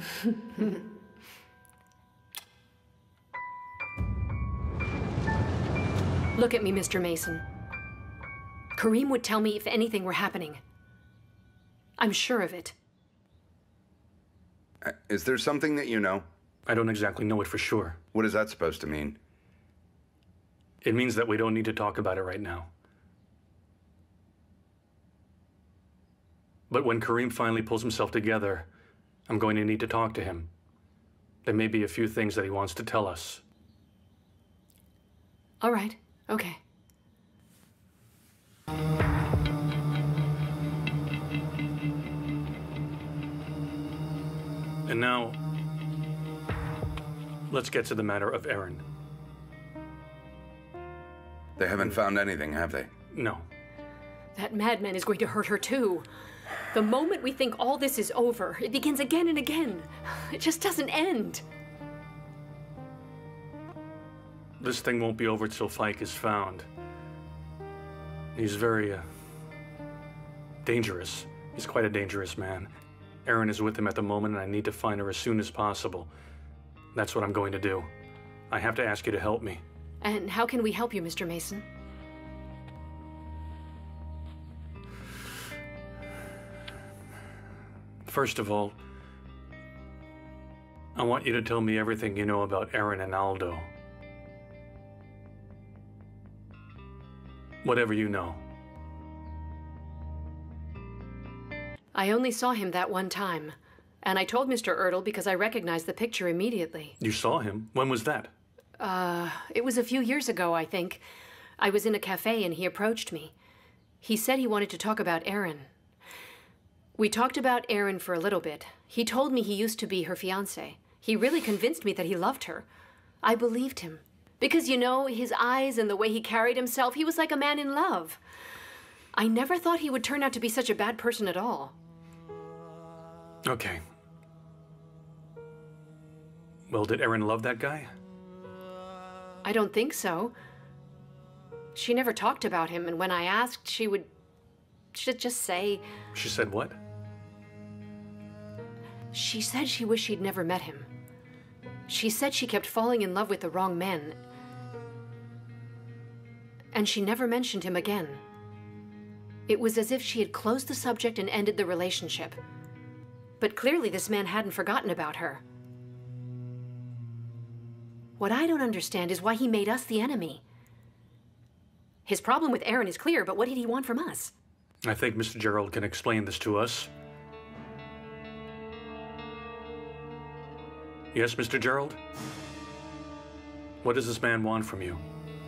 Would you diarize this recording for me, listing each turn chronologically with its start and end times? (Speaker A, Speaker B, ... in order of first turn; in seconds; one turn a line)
Speaker A: 6.4-7.4
Speaker A: 8.8-10.6
Speaker A: 12.0-12.8
Speaker B: 14.8-16.3
Speaker C: 16.7-18.0
Speaker B: 18.1-19.2
Speaker C: 20.8-22.7
Speaker C: 26.7-28.7
Speaker C: 29.3-30.5
Speaker C: 31.4-33.4
Speaker A: 35.6-36.6
Speaker C: 44.9-45.4
Speaker C: 47.5-48.8
Speaker B: 51.6-52.9
Speaker C: 53.1-53.5
Speaker A: 54.4-56.1
Speaker A: 56.7-61.4
Speaker C: 64.6-66.7
Speaker C: 68.3-69.1
Speaker C: 70.6-72.7
Speaker C: 73.3-76.1
Speaker C: 76.9-77.9
Speaker C: 78.5-79.6
Speaker A: 80.0-81.7
Speaker C: 88.0-88.8
Speaker C: 91.0-93.7
Speaker C: 97.6-98.4
Speaker A: 101.9-107.0
Speaker C: 107.0-108.3
Speaker A: 108.8-111.0
Speaker A: 111.6-113.3
Speaker A: 114.0-115.7
Speaker A: 117.0-122.7
Speaker A: 123.2-128.2
Speaker A: 129.1-131.8
Speaker C: 133.5-133.8
Speaker C: 136.7-137.9
Speaker A: 139.4-140.3
Speaker A: 141.8-144.1
Speaker A: 144.9-145.8
Speaker C: 146.1-146.8
Speaker A: 149.1-150.9
Speaker A: 151.9-154.2
Speaker A: 156.7-158.2
Speaker A: 159.5-162.4
Speaker A: 163.4-165.4
Speaker A: 168.2-170.4
Speaker A: 172.1-174.3
Speaker C: 174.8-176.9
Speaker C: 181.1-182.0
Speaker C: 183.8-185.0